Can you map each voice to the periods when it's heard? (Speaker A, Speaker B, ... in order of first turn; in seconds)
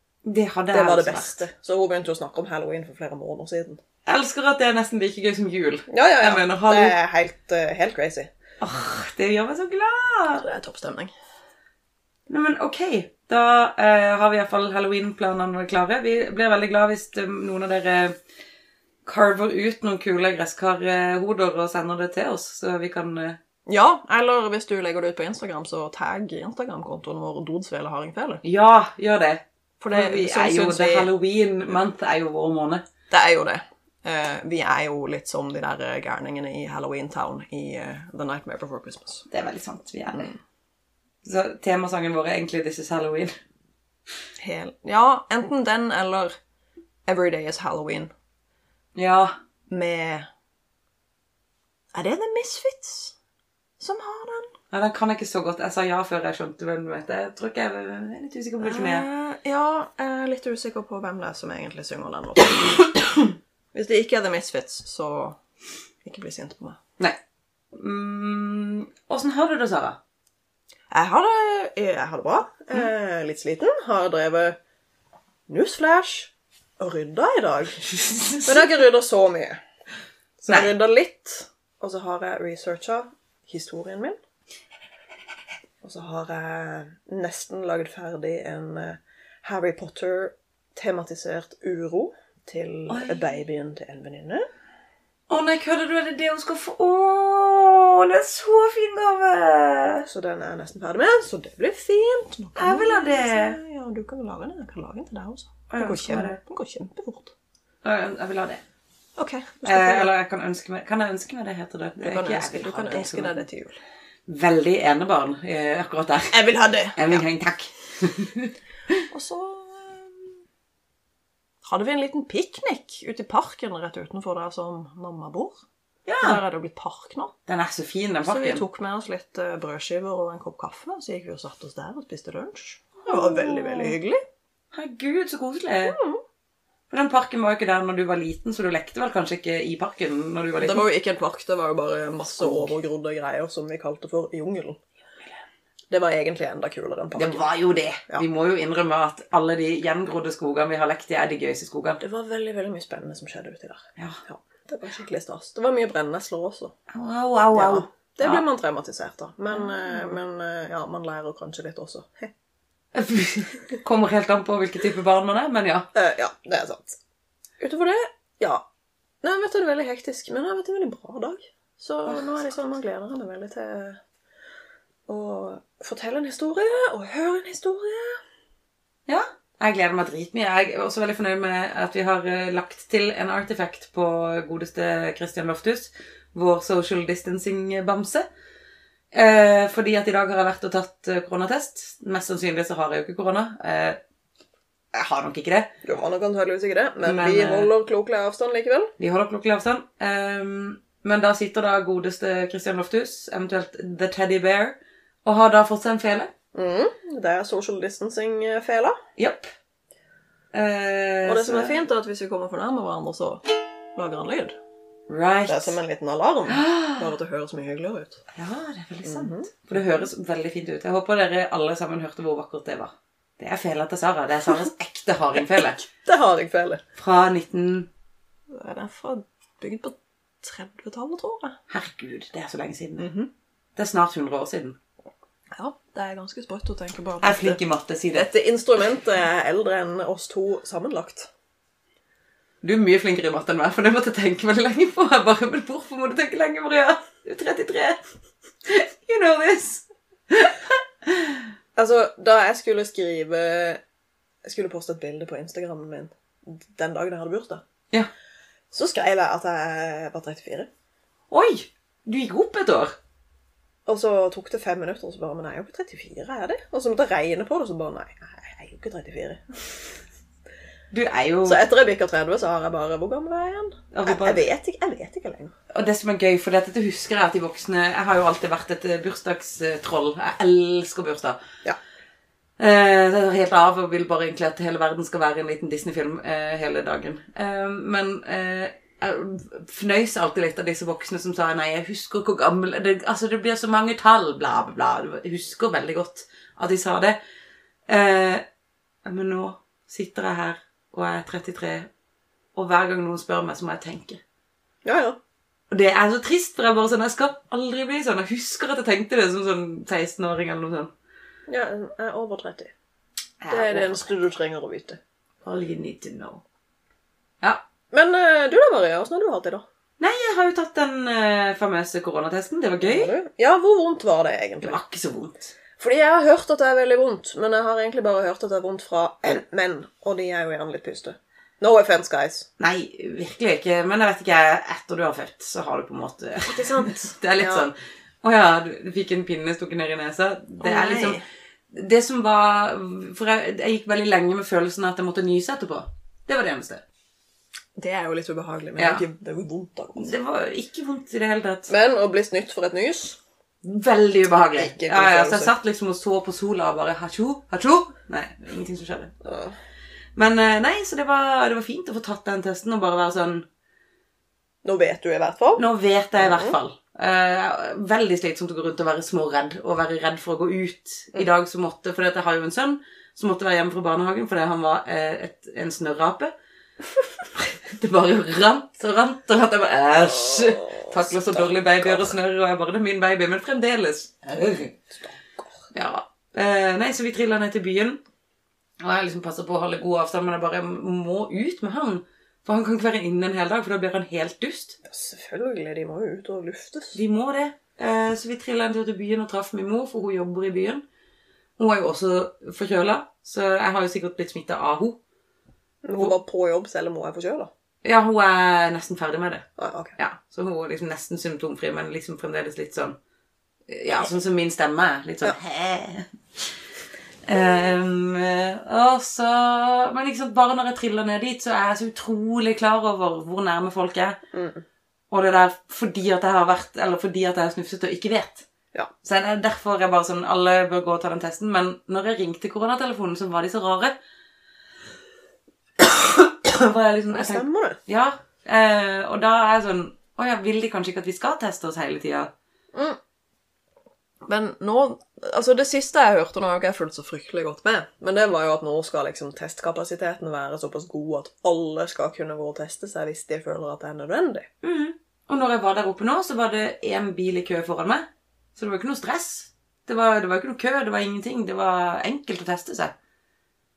Speaker A: 0.2-1.4, 4.1-7.0, 8.6-10.5, 12.3-18.2, 19.1-23.4, 28.4-32.9, 39.3-40.4, 41.2-43.4, 49.0-49.3, 54.7-59.1, 67.7-70.0, 92.9-93.3, 95.3-100.1, 102.6-103.6, 105.7-106.4, 107.8-108.6, 109.7-113.4, 114.3-119.0, 126.1-126.4, 127.5-128.6, 133.0-134.0, 134.7-136.0, 136.9-140.9, 142.3-142.7, 147.2-152.0, 156.9-158.4, 159.5-159.8, 162.9-165.9, 179.1-188.3, 189.1-194.0, 194.9-195.7, 197.0-197.7, 199.0-206.3, 209.2-209.5, 210.5-211.8, 215.1-215.8, 216.5-217.1, 218.3-225.9, 227.0-227.9, 231.7-233.1, 233.8-234.8, 237.2-238.3, 242.6-248.0, 248.7-251.4, 261.3-262.9, 270.9-271.6, 273.9-274.4, 275.7-281.4, 282.6-297.2, 297.9-298.4, 299.1-301.9, 302.6-304.2, 305.7-310.9, 313.4-314.1, 315.4-316.4, 320.0-323.1, 324.6-325.5, 332.6-341.2, 341.7-346.8, 348.8-349.1, 350.0-351.7, 353.6-359.1, 360.2-363.5, 365.6-376.3, 377.2-384.8, 385.7-388.0, 388.8-394.8, 396.9-400.8, 401.6-405.0, 407.8-409.5, 410.0-413.0, 413.7-416.5, 417.3-424.2, 425.1-428.5, 429.0-433.9, 435.8-442.3, 454.6-462.9
Speaker B: 0.7-3.8, 5.9-8.3, 10.4-11.1, 23.7-28.4, 29.8-31.1, 33.1-39.3, 44.4-46.3, 47.1-48.1, 49.7-50.3, 51.9-53.1, 53.8-54.5, 58.6-65.4, 66.0-66.8, 70.9-74.6, 75.5-79.6, 80.4-84.2, 85.8-94.5, 100.0-107.3, 109.2-110.1, 112.0-113.8, 116.3-117.3, 119.1-120.4, 121.7-125.6, 126.2-127.3, 128.2-134.2, 135.9-136.2, 140.6-144.8, 145.9-147.5, 152.0-156.7, 157.5-162.3, 165.9-167.0, 167.6-168.7, 169.2-174.0, 175.1-178.2, 195.8-198.9, 206.5-208.9, 211.3-214.6, 215.5-218.2, 219.1-219.5, 226.1-226.8, 228.5-231.6, 233.0-233.3, 235.5-237.6, 238.1-241.3, 251.8-253.8, 254.4-257.6, 258.7-260.7, 263.9-270.0, 271.4-275.5, 304.8-305.2, 311.5-312.7, 313.5-315.0, 317.9-319.6, 322.8-324.8, 325.8-332.5, 336.4-337.7, 340.6-341.2, 347.8-350.1, 351.7-353.2, 354.6-355.5, 359.2-359.6, 364.6-365.6, 366.2-366.6, 380.0-382.1, 384.9-385.6, 394.9-397.0, 405.8-407.5, 409.6-410.0, 424.3-424.6, 437.1-437.8, 442.7-443.0, 444.3-454.5